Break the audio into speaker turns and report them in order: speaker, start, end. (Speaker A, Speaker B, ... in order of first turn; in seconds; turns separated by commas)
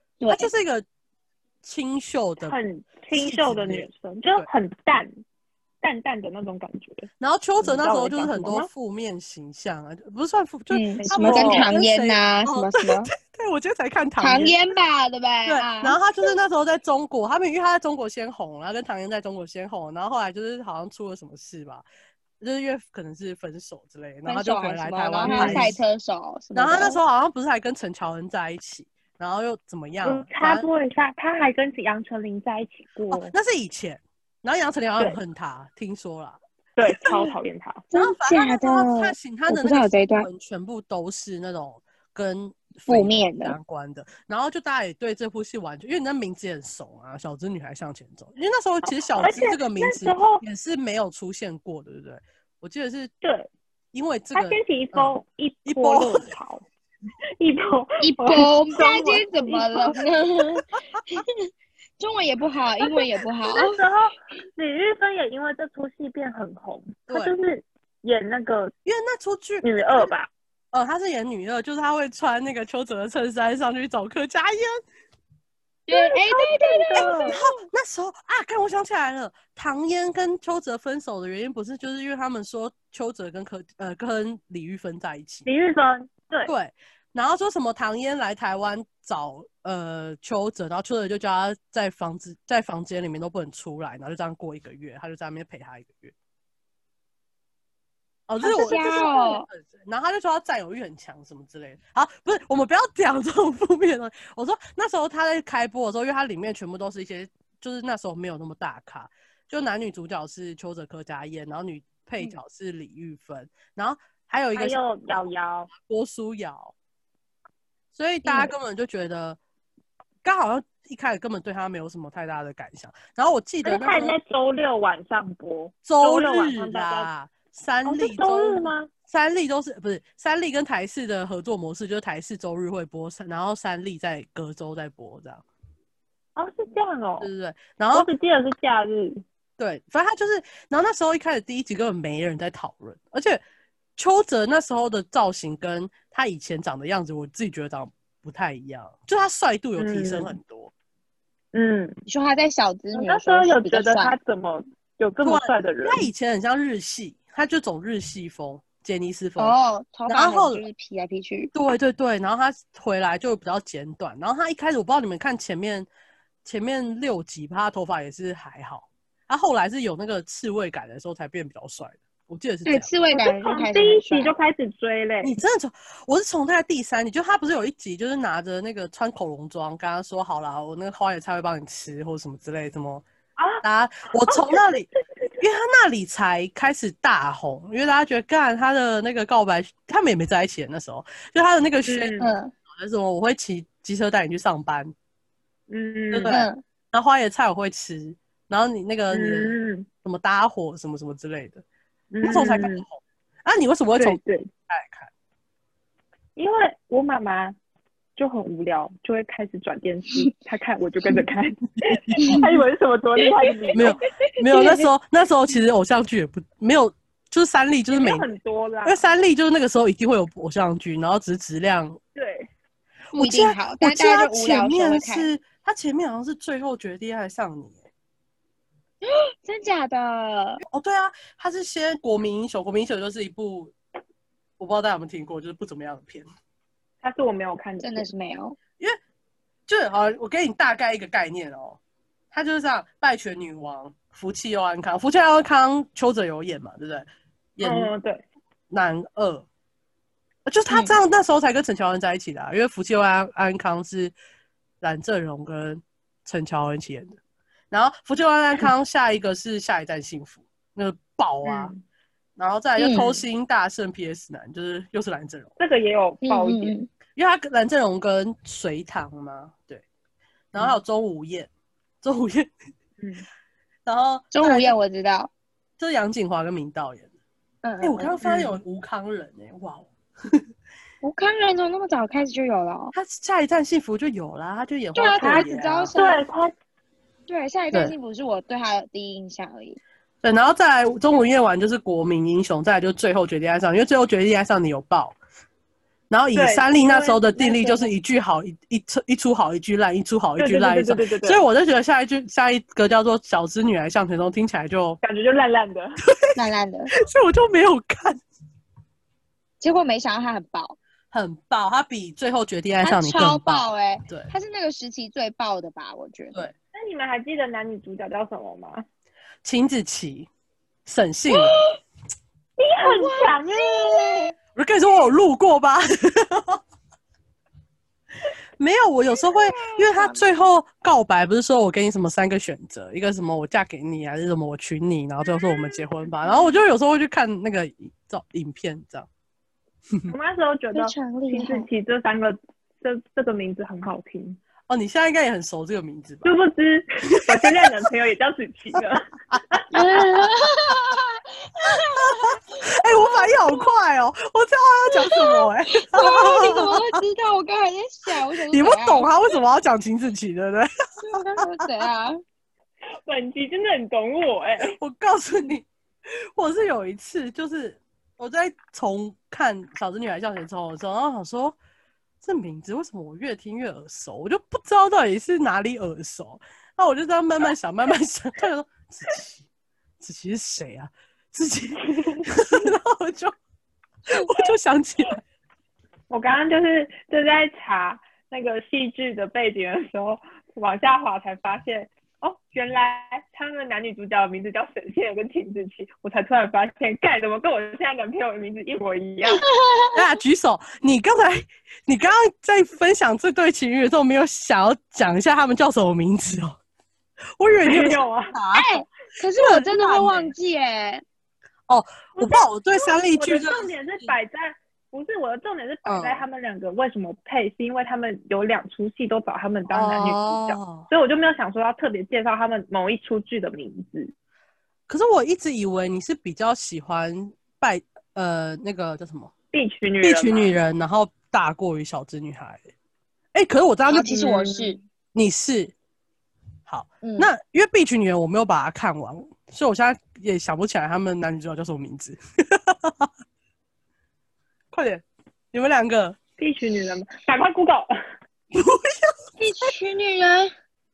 Speaker A: 0.2-0.5, Speaker B: 0.3-0.8, Speaker B: 1.6-2.6, Speaker C: 2.4-5.2, Speaker B: 3.1-4.5, Speaker C: 5.8-7.1, Speaker B: 7.2-14.6, Speaker C: 7.6-8.7, Speaker A: 10.7-13.1, Speaker C: 11.0-11.7, Speaker A: 14.2-16.0, Speaker B: 15.4-21.9, Speaker B: 22.4-25.8, Speaker A: 24.3-27.0, Speaker C: 25.2-25.7, Speaker B: 26.6-30.7, Speaker C: 30.0-33.3, Speaker B: 33.1-37.3, Speaker C: 36.8-37.9, Speaker A: 37.9-40.3, Speaker B: 37.9-53.1, Speaker A: 42.9-43.6, Speaker C: 48.9-50.4, Speaker C: 53.2-53.5, Speaker B: 53.9-55.1, Speaker C: 54.4-56.6, Speaker B: 55.7-56.3, Speaker C: 57.4-60.0, Speaker A: 58.0-61.3, Speaker A: 62.0-63.8, Speaker C: 62.9-68.7, Speaker B: 68.8-70.1, Speaker C: 69.6-70.3, Speaker B: 70.7-74.8, Speaker A: 75.9-77.4, Speaker C: 75.9-77.4, Speaker B: 77.3-85.5, Speaker C: 85.5-86.5, Speaker B: 86.5-96.1, Speaker B: 98.3-114.8, Speaker A: 98.4-99.5, Speaker C: 114.6-115.7, Speaker B: 115.7-116.7, Speaker B: 117.9-119.4, Speaker A: 118.2-118.5, Speaker B: 120.2-124.2, Speaker C: 123.7-127.1, Speaker B: 125.8-135.4, Speaker C: 127.9-128.9, Speaker C: 136.4-137.3, Speaker B: 137.2-138.1, Speaker C: 137.9-139.2, Speaker B: 139.6-143.4, Speaker B: 144.0-150.7, Speaker C: 149.8-150.4, Speaker C: 151.5-152.0, Speaker A: 152.1-154.2, Speaker C: 152.9-156.1, Speaker B: 155.2-159.6, Speaker A: 159.4-161.5, Speaker B: 160.1-160.6, Speaker B: 161.5-165.9, Speaker B: 166.4-172.9, Speaker A: 172.7-174.3, Speaker C: 173.1-175.3, Speaker B: 175.2-183.0, Speaker C: 183.4-183.6, Speaker B: 183.6-184.9, Speaker C: 184.3-184.6, Speaker B: 185.4-192.2, Speaker C: 191.9-192.3, Speaker A: 192.2-192.5, Speaker B: 192.7-194.9, Speaker C: 195.7-196.3, Speaker B: 196.1-201.6, Speaker A: 196.3-196.6, Speaker C: 199.1-199.9, Speaker C: 202.1-202.8, Speaker B: 202.2-205.1, Speaker C: 204.0-204.5, Speaker C: 206.4-207.6, Speaker C: 208.2-214.0, Speaker B: 211.9-212.4, Speaker A: 212.2-212.5, Speaker B: 213.8-218.3, Speaker C: 217.9-219.0, Speaker B: 218.8-222.0, Speaker C: 222.2-222.5, Speaker B: 223.1-227.8, Speaker A: 223.1-225.3, Speaker A: 229.0-230.6, Speaker B: 230.7-233.7, Speaker B: 234.6-236.3, Speaker C: 237.0-238.1, Speaker A: 237.8-238.6, Speaker B: 239.7-241.8, Speaker B: 242.3-247.9, Speaker C: 247.6-248.2, Speaker B: 248.7-249.5, Speaker B: 250.5-254.1, Speaker B: 254.8-257.1, Speaker B: 257.7-261.7, Speaker C: 261.4-261.8, Speaker B: 262.4-265.5, Speaker A: 262.8-263.1, Speaker C: 265.6-266.8, Speaker A: 266.2-266.9, Speaker B: 267.2-269.8, Speaker B: 270.5-271.5, Speaker B: 272.0-272.5, Speaker C: 273.0-273.3, Speaker B: 273.9-274.8, Speaker A: 274.3-275.3, Speaker B: 275.8-277.1, Speaker A: 277.6-278.2, Speaker B: 277.8-280.4, Speaker C: 278.2-278.6, Speaker A: 281.0-282.9, Speaker B: 282.9-285.9, Speaker A: 284.9-286.2, Speaker C: 285.0-286.5, Speaker A: 287.3-289.8, Speaker B: 290.2-295.2, Speaker B: 296.1-305.0, Speaker C: 296.4-297.9, Speaker C: 300.4-301.4, Speaker C: 305.0-306.0, Speaker B: 306.1-306.4, Speaker A: 306.4-306.9, Speaker B: 306.9-308.2, Speaker A: 309.6-310.8, Speaker B: 311.1-314.3, Speaker A: 312.8-316.5, Speaker C: 316.7-318.8, Speaker B: 319.4-320.3, Speaker B: 320.9-321.6, Speaker C: 322.6-324.3, Speaker A: 322.8-324.3, Speaker B: 324.6-326.6, Speaker B: 328.6-339.1, Speaker A: 329.2-330.2, Speaker C: 335.8-336.5, Speaker C: 340.1-344.4, Speaker A: 340.7-341.7, Speaker B: 344.7-346.3, Speaker C: 346.2-349.6, Speaker B: 347.1-347.9, Speaker B: 349.3-349.6, Speaker A: 349.7-352.4, Speaker B: 351.9-357.0, Speaker A: 353.1-353.5, Speaker A: 355.0-359.1, Speaker B: 358.1-360.7, Speaker A: 361.0-362.2, Speaker C: 363.1-364.7, Speaker B: 364.6-371.6, Speaker B: 372.2-379.4, Speaker B: 380.0-383.3, Speaker C: 382.0-382.3, Speaker B: 384.1-385.2, Speaker C: 384.3-384.5, Speaker C: 386.1-399.5, Speaker A: 399.2-400.0, Speaker B: 399.9-406.6, Speaker B: 407.4-408.7, Speaker C: 407.6-408.3, Speaker A: 408.5-411.0, Speaker B: 409.4-410.3, Speaker B: 411.7-414.1, Speaker C: 412.2-424.1, Speaker B: 415.9-416.2, Speaker B: 419.7-420.9, Speaker B: 424.9-429.3, Speaker C: 429.5-430.6, Speaker B: 430.0-432.6, Speaker B: 433.3-434.1, Speaker A: 433.9-434.8, Speaker C: 434.1-434.8, Speaker B: 435.1-435.7, Speaker B: 436.7-443.1, Speaker A: 437.0-437.3, Speaker B: 444.7-446.2, Speaker C: 446.4-447.9, Speaker B: 448.5-449.1, Speaker A: 449.4-450.5